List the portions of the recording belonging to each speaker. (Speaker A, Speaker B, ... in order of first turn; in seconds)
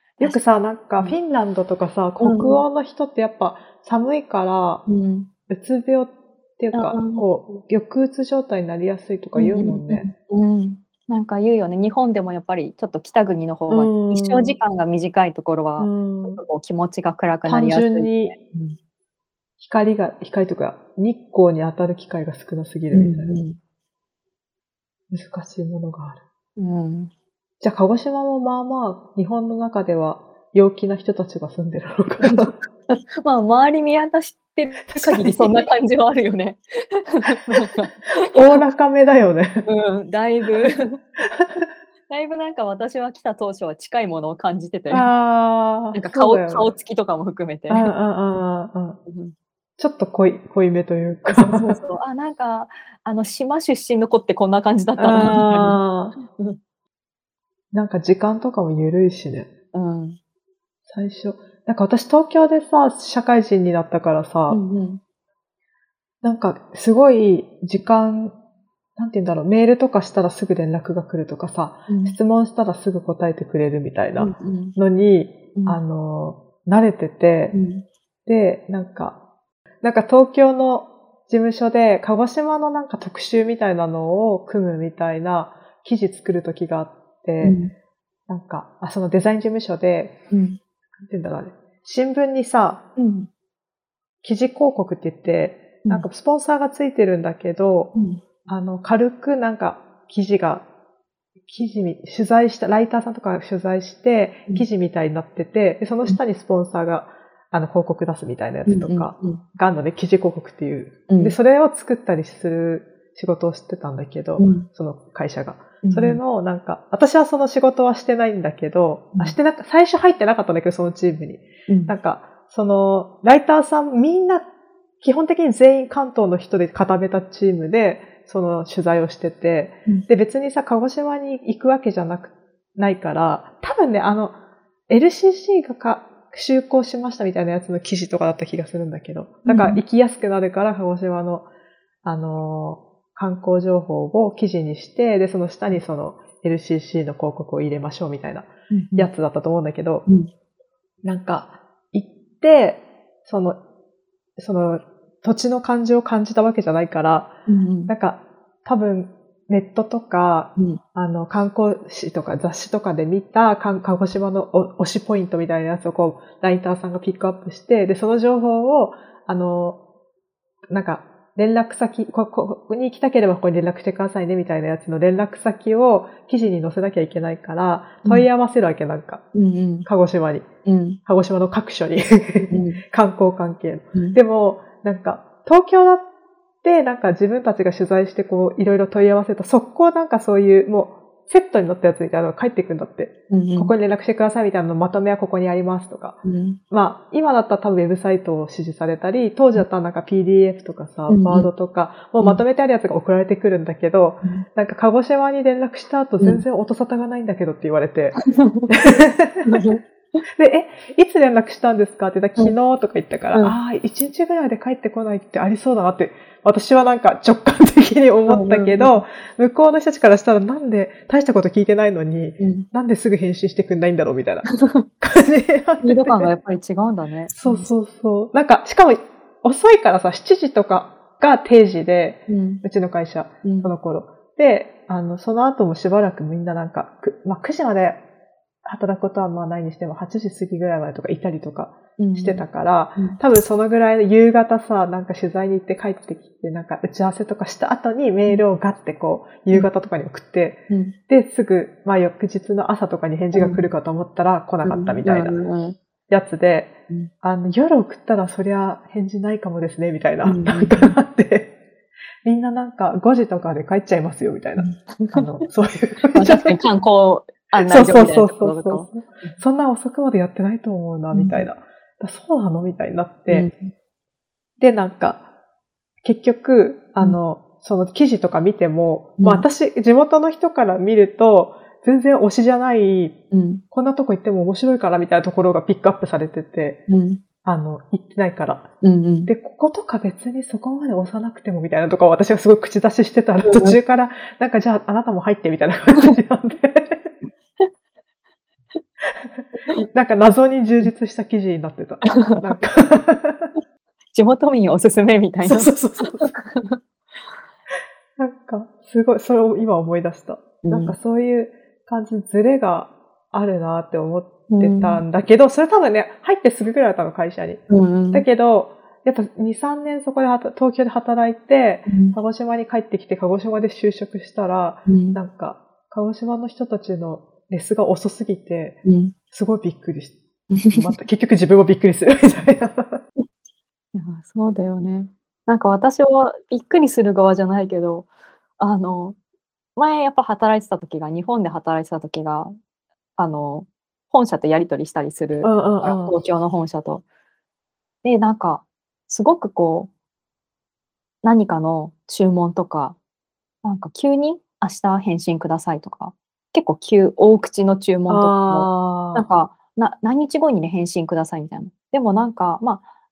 Speaker A: 0.2-4.8, 5.5-10.1, 13.7-14.6, 15.8-16.4, 17.4-18.3, 19.6-23.4, 25.1-26.2, 27.6-32.5, 34.9-35.6, 37.5-39.6, 40.6-41.6, 44.9-46.7, 47.7-49.0, 49.8-51.8, 55.0-56.2, 57.7-59.5, 60.9-64.6, 66.2-68.3, 69.0-77.5, 78.2-79.2, 79.8-87.6, 88.3-90.1, 91.0-92.8, 94.2-97.9, 98.5-100.6, 101.5-124.5, 125.0-134.3, 134.9-141.5, 142.0-150.0, 151.0-153.6, 154.4-157.3, 157.9-169.8, 170.7-179.2, 179.8-180.5, 181.1-186.1, 186.6-209.6, 210.4-226.3, 227.3-238.0, 238.6-255.4, 256.1-261.5, 262.2-266.6, 267.6-273.5, 274.6-275.2, 276.0-283.1, 283.7-286.8, 287.4-288.7, 289.2-297.1, 299.7-303.5, 305.4-306.3, 308.2-328.8, 329.3-330.2, 330.7-333.0, 345.4-346.2, 358.1-359.2
Speaker B: 2.2-2.6, 4.9-5.3, 6.7-7.3, 9.3-18.8, 22.9-23.6, 26.6-27.1, 32.2-38.6, 39.6-41.0, 42.1-45.1, 45.9-47.9, 49.1-49.3, 51.3-56.6, 59.7-60.2, 64.5-65.0, 71.9-72.2, 74.2-74.8, 77.5-77.8, 87.4-87.7, 90.3-90.6, 93.0-93.3, 97.9-98.2, 108.7-109.4, 111.1-111.4, 114.4-114.7, 115.8-116.2, 121.7-121.9, 139.5-139.8, 148.7-149.1, 157.5-157.9, 179.3-179.9, 180.6-181.0, 182.4-182.8, 193.3-193.7, 196.2-196.6, 201.1-201.5, 208.2-208.7, 209.5-209.8, 218.3-219.0, 222.4-222.7, 224.6-224.8, 225.8-227.7, 232.3-232.6, 233.4-233.7, 242.0-242.4, 250.7-250.9, 253.3-253.6, 254.6-255.8, 260.2-260.9, 264.6-265.2, 266.1-269.3, 271.1-271.4, 273.3-273.7, 279.2-279.4, 283.3-283.6, 286.9-287.2, 288.8-289.3, 293.4-293.8, 302.1-302.4, 304.1-306.8, 310.6-310.9, 314.5-315.0, 317.7-318.2, 321.9-322.1, 324.9-325.2, 328.8-329.1, 330.5-330.8, 333.9-339.1, 339.8-342.5, 343.2-347.0, 348.0-349.9, 351.2-353.0, 353.6-362.8